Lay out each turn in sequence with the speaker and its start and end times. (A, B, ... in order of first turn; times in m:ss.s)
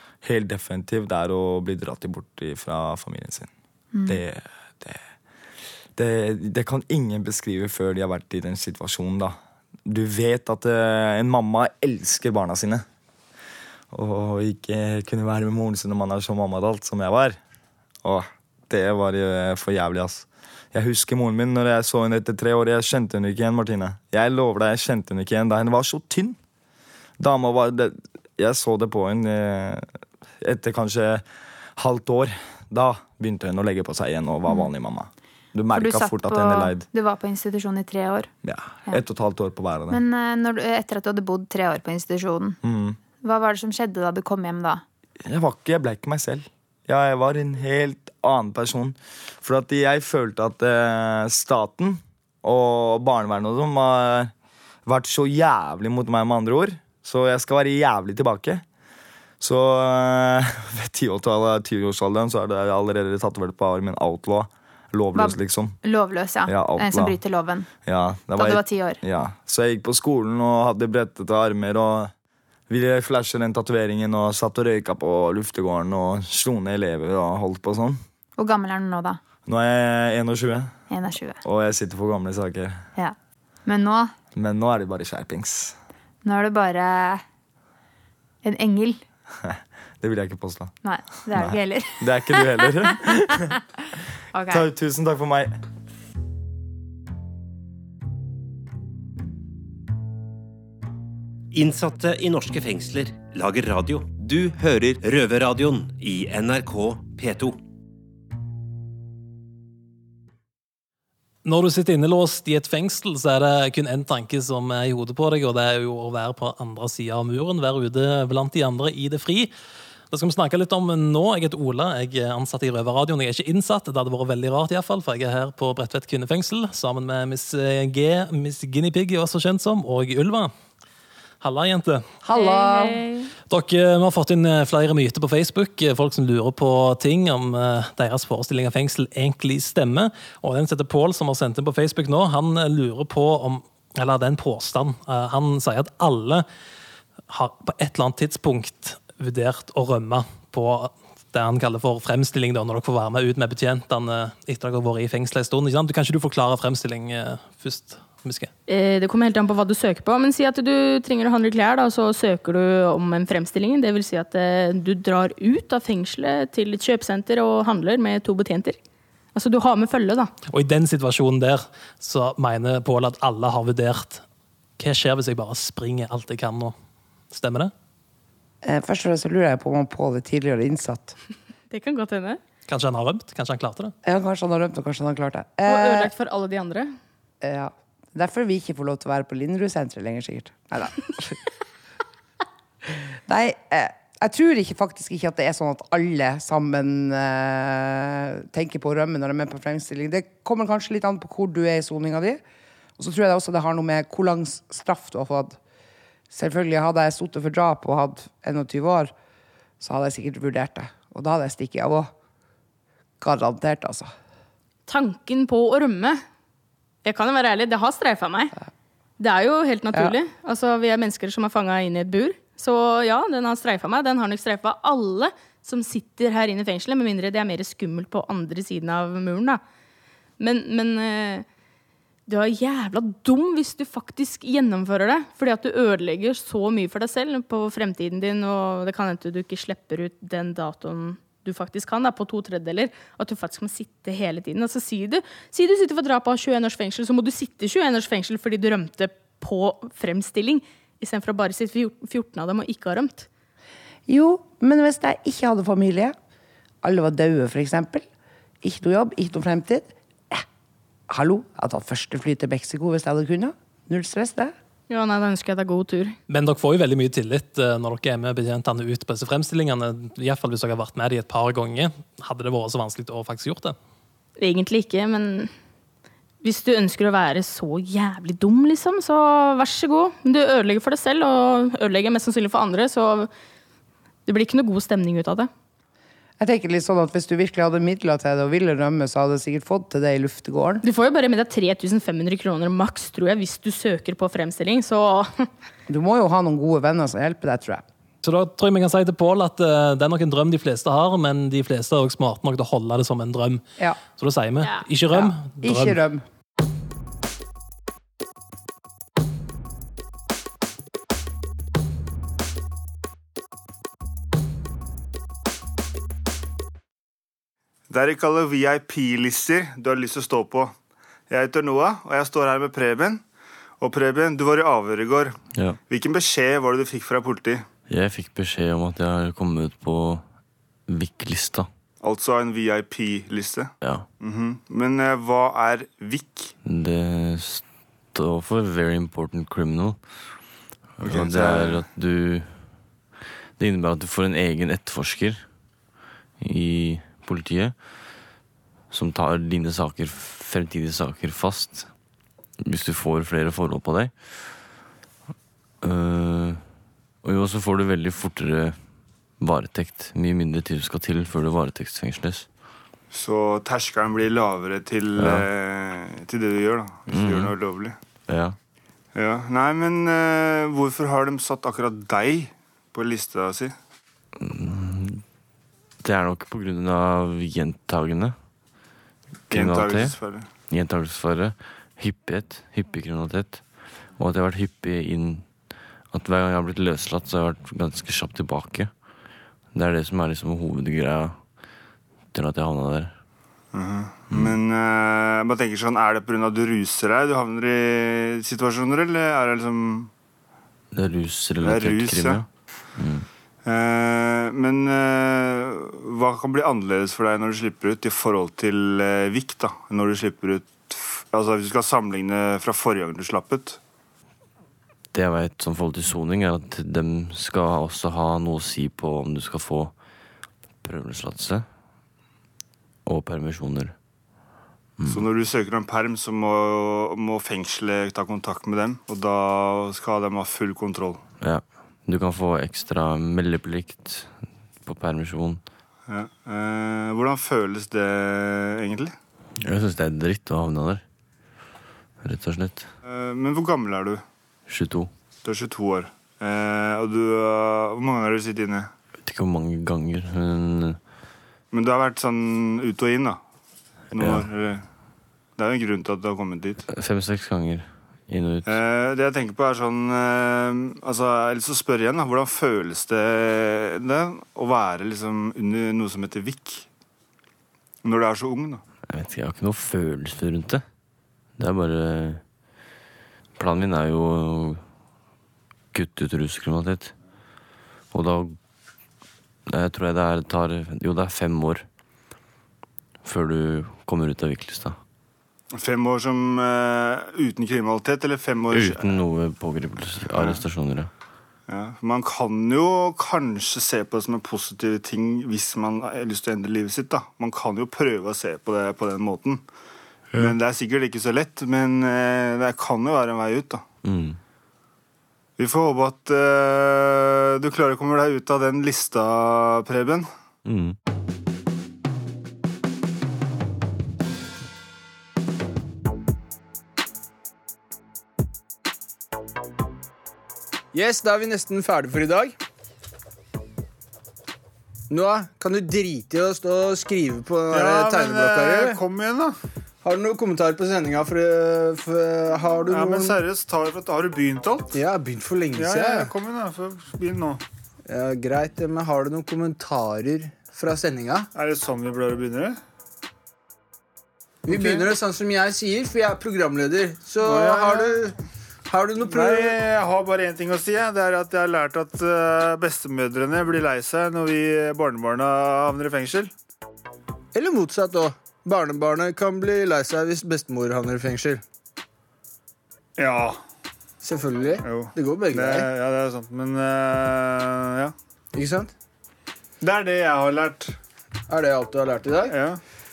0:00.2-0:03.5 A
0:03.9-0:04.2 B
0:04.0-0:05.0 A
0:06.0-0:12.8 A
0:13.9-0:17.4 A
0:18.0-0:26.4 A
0:27.2-0:29.9 A
0:30.4-0:31.2 A
0:31.8-0:36.8 A
0:35.7-0:38.3 B
0:38.4-0:40.0 A
0:39.9-0:42.6 B
0:42.6-0:43.0 A
0:43.2-0:44.8 B
0:45.2-0:54.3 A
0:54.8-0:58.6 A
0:59.4-1:05.8 A
1:05.1-1:07.7 B
1:06.4-1:07.2 A
1:07.8-1:12.1 A
1:08.3-1:09.0 B
1:12.7-1:18.0 A
1:18.4-1:19.2 B
1:19.4-1:20.8 A
1:20.9-1:21.4 B
1:21.4-1:22.9 A
1:23.6-1:24.1 B
1:24.3-1:25.8 A
1:26.2-1:27.2 B
1:28.4-1:29.0 B
1:29.4-1:30.7 A
1:30.8-1:32.9 B
1:31.3-1:33.5 A
1:34.3-1:34.6 B
1:34.5-1:35.5 A
1:41.5-1:47.6 C
1:51.4-1:59.5 D
2:00.1-2:10.5 D
2:11.4-2:12.0 D
2:12.2-2:13.0 E
2:12.3-2:13.3 F
2:13.5-2:26.4 D
2:27.3-2:38.5 D
2:38.7-2:48.8 F
2:49.3-2:50.3 F
2:50.5-2:54.2 D
2:54.8-2:56.7 D
2:57.3-2:57.7 D
2:58.6-3:01.2 E
3:01.7-3:02.4 F
3:02.7-3:03.9 D
3:04.0-3:06.1 E
3:05.6-3:06.9 F
3:07.4-3:11.4 E
3:13.3-3:22.4 E
3:23.0-3:25.6 E
3:26.3-3:29.1 E
3:29.8-3:32.1 E
3:33.2-3:34.1 E
3:34.9-3:36.2 F
3:37.0-3:38.5 F
3:39.2-3:49.6 F
3:50.4-3:51.4 F
3:52.3-4:13.3 F
4:14.1-4:16.2 E
4:16.8-4:18.0 E
4:18.6-4:20.4 E
4:21.1-4:24.5 E
4:24.9-4:26.2 F
4:26.3-4:33.8 D
4:34.4-4:35.5 F
4:36.4-4:43.3 F
4:44.2-4:45.5 F
4:46.4-4:50.8 E
4:50.8-4:55.5 F
4:55.9-4:57.8 E
4:58.2-5:06.0 D
5:04.6-5:05.0 F
5:05.1-5:06.2 E
5:17.9-5:20.7 G
5:21.3-5:23.2 G
5:23.8-5:27.6 G
5:25.5-5:25.8 H
5:27.9-5:31.7 H
5:32.0-5:36.5 G
5:33.8-5:34.1 H
5:36.6-5:45.8 H
5:41.0-5:41.8 G
5:46.4-5:48.3 H
5:48.9-5:52.0 H
5:52.6-5:54.7 H
5:55.8-6:02.5 H
6:03.1-6:08.0 G
6:05.2-6:05.5 H
6:07.1-6:08.6 H
6:09.1-6:13.7 G
6:14.4-6:15.4 H
6:16.0-6:18.7 H
6:19.5-6:20.5 G
6:19.5-6:33.2 H
6:33.7-6:40.1 G
6:40.9-6:43.3 H
6:41.6-6:42.4 G
6:43.6-6:53.8 G
6:55.1-7:01.7 H
7:03.0-7:04.0 H
7:05.0-7:05.2 H
7:05.1-7:11.2 G
7:11.4-7:15.7 H
7:16.1-7:19.1 G
7:19.6-7:21.0 H
7:22.2-7:22.9 H
7:23.0-7:24.2 G
7:24.7-7:25.1 H
7:25.4-7:28.9 G
7:29.2-7:31.0 H
7:31.7-7:33.4 G
7:34.1-7:34.9 G
7:34.1-7:34.5 H
7:35.6-7:36.8 G
7:36.9-7:38.7 H
7:38.6-7:46.9 G
7:48.0-7:48.8 G
7:49.0-7:51.0 H
7:51.5-7:52.6 H
7:53.6-7:55.0 H
7:55.9-7:57.2 H
7:58.1-7:58.6 H
7:59.7-8:01.9 H
8:03.2-8:05.0 H
8:05.7-8:09.0 G
8:08.7-8:11.1 H
8:10.2-8:10.6 G
8:11.7-8:19.6 G
8:20.3-8:23.8 G
8:24.0-8:24.4 H
8:25.6-8:30.3 G
8:30.6-8:31.0 H
8:40.9-8:42.5 I
8:45.1-8:49.0 I
8:47.7-8:49.6 G
8:50.0-8:53.4 I
8:52.9-8:54.9 G
8:54.9-8:56.3 I
8:55.8-8:57.6 G
8:58.1-9:01.5 I
9:01.5-9:02.8 G
9:04.7-9:08.3 I
9:04.7-9:05.1 G
9:07.4-9:08.2 G
9:08.9-9:09.8 I
9:09.2-9:16.5 G
9:17.5-9:21.6 I
9:23.2-9:23.6 G
9:24.2-9:25.9 I
9:24.8-9:28.1 G
9:28.5-9:28.9 I
9:29.8-9:31.0 G
9:31.5-9:32.5 I
9:32.5-9:32.8 G